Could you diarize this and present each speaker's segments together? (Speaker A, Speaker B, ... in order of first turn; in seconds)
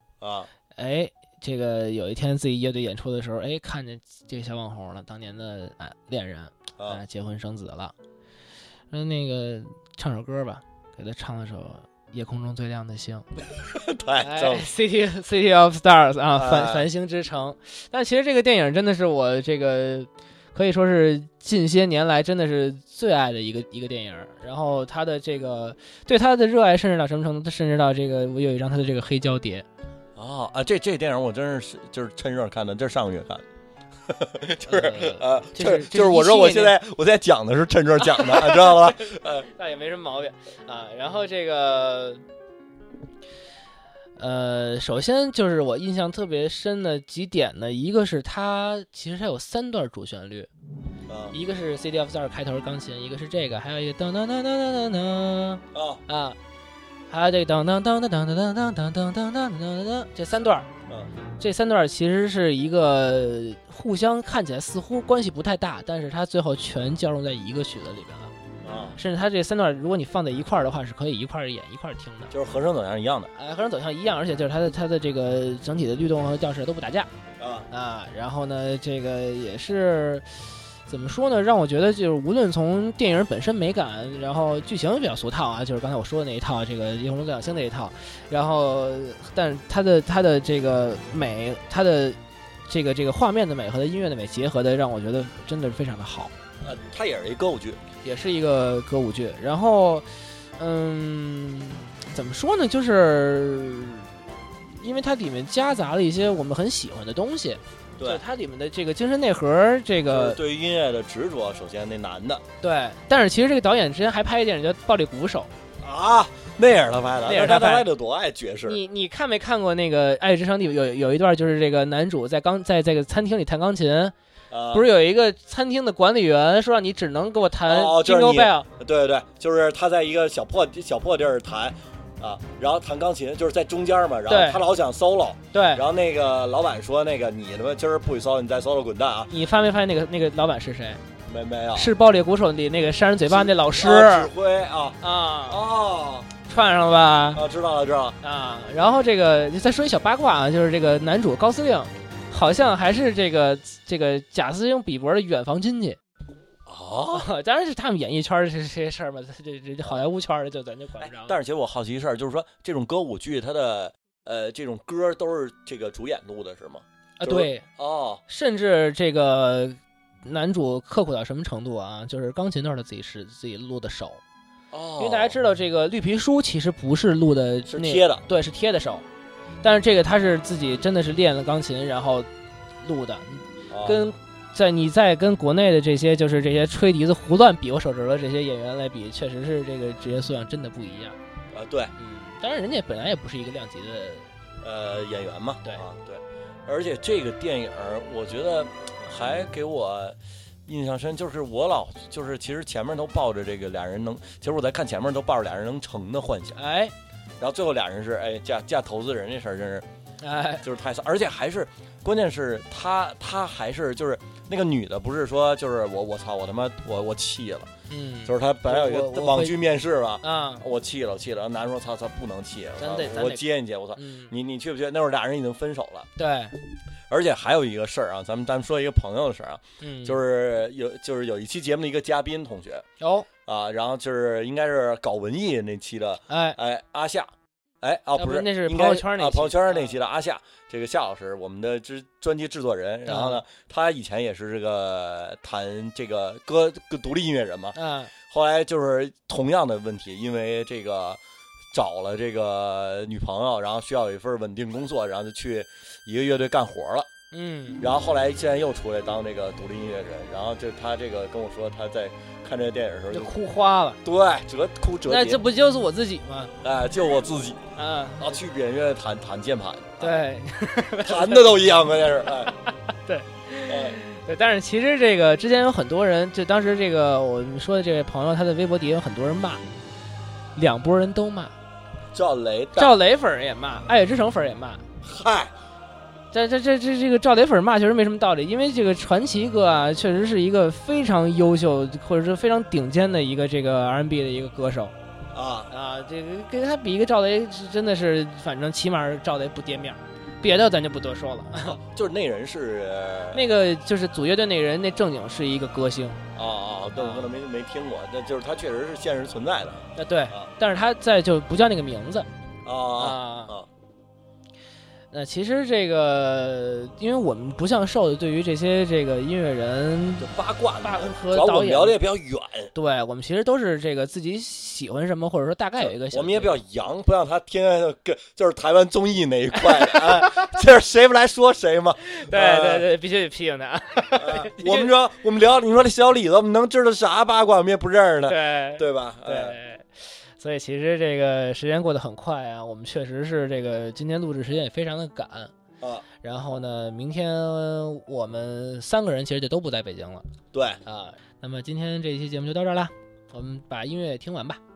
Speaker A: 0.2-0.5, 13.4-14.7, 16.3-16.9, 30.2-33.4, 34.1-39.5, 51.1-51.3, 55.7-56.0, 68.6-69.0, 72.3-73.3, 77.4-77.7, 96.6-97.8, 108.0-108.2, 110.1-112.4, 115.8-118.8, 124.5-124.9, 127.7-139.3, 141.2-141.9, 143.3-146.3, 147.3-148.2, 156.7-157.3, 161.0-168.2, 174.7-175.4, 177.7-178.2, 183.7-184.1, 191.5-191.9, 194.6-206.6, 207.4-209.8, 210.6-217.7, 218.2-226.1, 227.1-232.8, 233.4-237.3, 237.8-247.8, 248.3-251.2, 251.7-257.1, 257.8-263.3, 264.0-265.4, 266.6-267.6, 268.2-270.2, 271.0-272.5, 273.7-274.0, 282.1-282.9, 285.0-285.5, 295.3-295.7, 301.6-303.4, 306.3-310.5, 312.6-313.7, 320.2-322.7, 325.8-332.9, 334.1-339.6, 350.5-350.8
Speaker B: 0.8-7.9, 8.9-13.2, 14.2-29.6, 34.7-36.8, 38.0-42.2, 44.2-50.5, 51.3-56.4, 57.1-60.7, 61.4-68.3, 69.0-72.3, 73.3-77.1, 77.7-80.2, 80.9-96.3, 98.0-100.1, 100.6-104.2, 104.7-110.4, 112.6-115.5, 117.2-117.9, 118.7-124.1, 124.7-128.7, 134.3-134.6, 135.5-135.8, 139.3-141.0, 141.7-144.3, 145.0-145.6, 146.5-147.4, 148.2-156.0, 157.1-161.4, 167.2-167.7, 168.3-174.2, 175.0-179.0, 179.6-182.3, 182.8-191.2, 192.0-194.3, 206.6-206.9, 210.2-210.6, 217.9-219.6, 220.2-220.6, 222.8-224.3, 226.2-226.5, 229.8-230.2, 233.0-233.3, 236.3-236.6, 238.2-239.9, 243.1-243.4, 247.7-248.1, 257.3-257.8, 263.1-264.0, 265.1-266.5, 267.8-268.2, 270.0-271.8, 273.0-279.6, 280.6-281.6, 282.7-284.8, 286.3-294.9, 295.7-301.8, 303.3-306.2, 307.0-307.3, 309.9-312.3, 313.0-313.5, 315.1-320.3, 320.8-322.0, 322.7-326.6, 329.6-330.5, 332.0-334.9, 338.2-339.9, 340.4-345.5, 346.2-350.3, 350.8-354.6